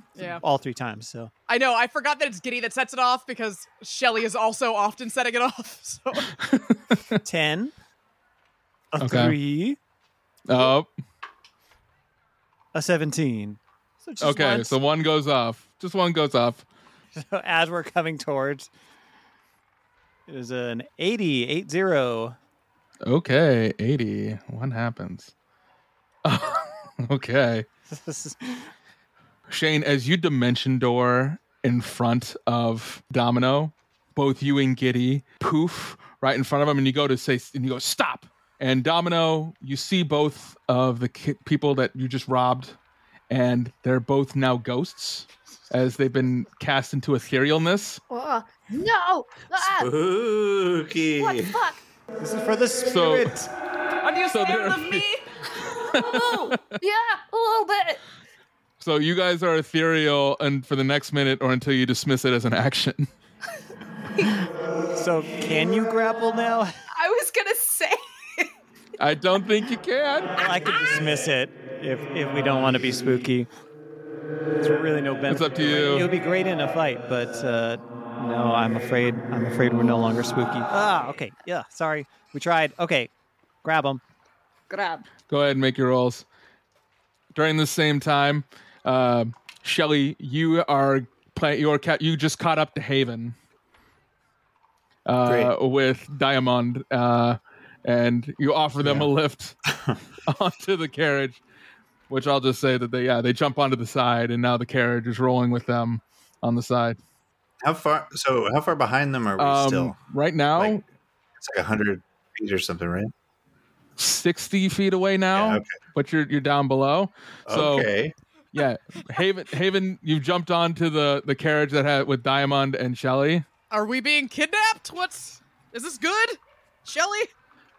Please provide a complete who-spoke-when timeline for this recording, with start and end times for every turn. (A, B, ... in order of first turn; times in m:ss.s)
0:00.2-0:00.4 A
0:00.2-0:01.3 B
0:01.5-0:06.3 A
0:06.3-0:07.2 C
0:07.2-0:07.7 B
0:08.9-0:09.8 B
0:09.0-0:09.4 C
0:10.5-0:10.9 C
0:12.7-0:14.8 B
0:14.2-0:16.6 C
0:17.1-0:18.7 B
0:20.3-0:22.4 B
0:23.0-0:25.3 C
0:26.2-0:27.6 C
0:27.9-0:28.7 B
0:29.5-0:42.8 C
0:43.3-0:48.0 C
0:48.1-0:49.9 D
0:49.6-0:51.6 E
0:51.2-0:51.8 D
0:52.2-0:53.5 B
0:52.8-0:53.4 C
0:54.0-0:55.4 F
0:54.3-0:55.1 C
0:55.7-0:58.0 D
0:55.9-0:56.8 C
0:56.0-0:56.5 F
0:58.8-1:03.1 C
1:04.9-1:06.7 B
1:06.9-1:08.5 D
1:09.0-1:10.4 C
1:10.4-1:13.5 B
1:14.6-1:23.1 B
1:15.3-1:16.1 C
1:23.6-1:24.0 B
1:24.7-1:25.1 F
1:25.3-1:26.2 C
1:27.3-1:33.3 C
1:35.0-1:39.6 C
1:35.2-1:35.5 E
1:38.8-1:39.1 E
1:39.7-1:40.0 E
1:40.2-1:41.4 C
1:42.1-1:47.0 C
1:47.6-1:50.0 E
1:49.4-1:50.8 C
1:50.6-1:50.8 E
1:51.4-1:53.1 E
1:54.0-1:57.9 C
1:55.3-1:55.8 E
1:57.5-1:58.1 E
1:58.5-2:03.4 C
2:03.7-2:07.3 A